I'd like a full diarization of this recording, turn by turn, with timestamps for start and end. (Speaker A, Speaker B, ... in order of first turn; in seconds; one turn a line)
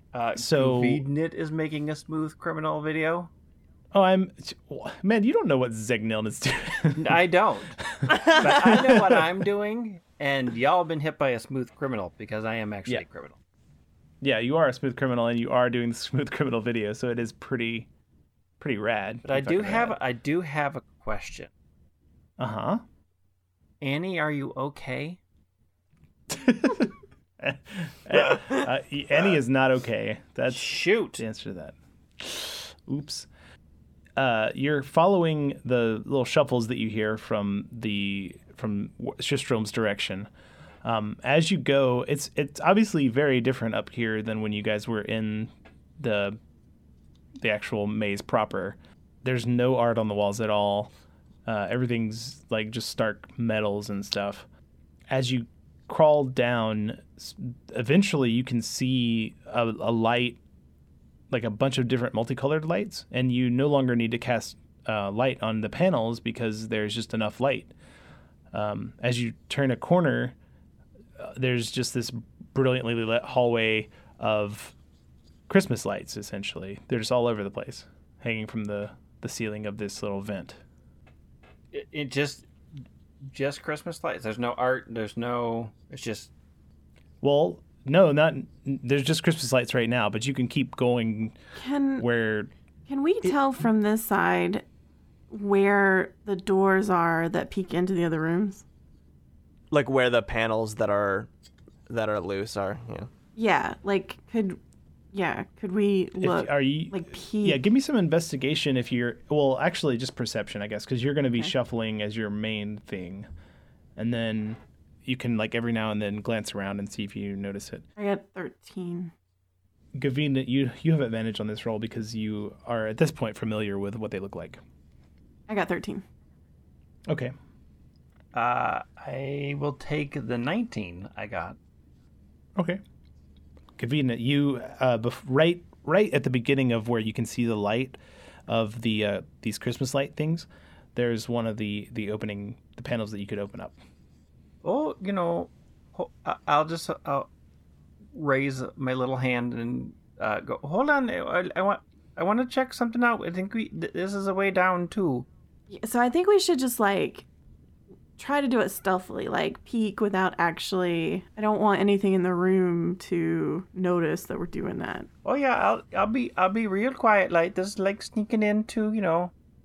Speaker A: 0.1-3.3
Speaker B: 0.4-1.1
Speaker B: 3.9-7.2
Speaker A: 7.0-13.4
Speaker B: 7.8-9.2
Speaker B: 14.2-17.9
Speaker B: 18.6-20.0
Speaker A: 19.2-21.5
Speaker B: 22.4-22.8
Speaker A: 23.8-25.2
Speaker B: 26.3-33.3
Speaker A: 30.5-31.2
Speaker B: 34.2-40.3
Speaker B: 40.8-46.4
Speaker B: 47.4-50.9
Speaker B: 51.5-54.5
Speaker B: 55.1-60.4
Speaker B: 61.3-67.7
Speaker B: 68.5-70.4
Speaker B: 71.2-74.7
Speaker B: 75.5-80.6
Speaker A: 81.7-82.5
Speaker A: 83.2-86.3
Speaker B: 87.2-91.4
Speaker C: 91.6-92.1
Speaker B: 92.0-92.5
Speaker C: 92.9-94.7
Speaker C: 95.3-98.6
Speaker D: 99.7-101.3
Speaker D: 101.9-103.1
Speaker C: 103.4-104.6
Speaker C: 105.1-107.6
Speaker B: 106.2-113.3
Speaker B: 114.0-117.8
Speaker C: 118.0-119.1
Speaker B: 120.0-124.6
Speaker C: 125.5-126.0
Speaker B: 127.1-127.3
Speaker A: 128.3-131.6
Speaker B: 132.6-132.8
Speaker B: 133.8-143.8
Speaker A: 144.6-147.3
Speaker A: 148.1-155.3
Speaker C: 155.7-157.3
Speaker C: 158.2-165.1
Speaker A: 165.2-169.3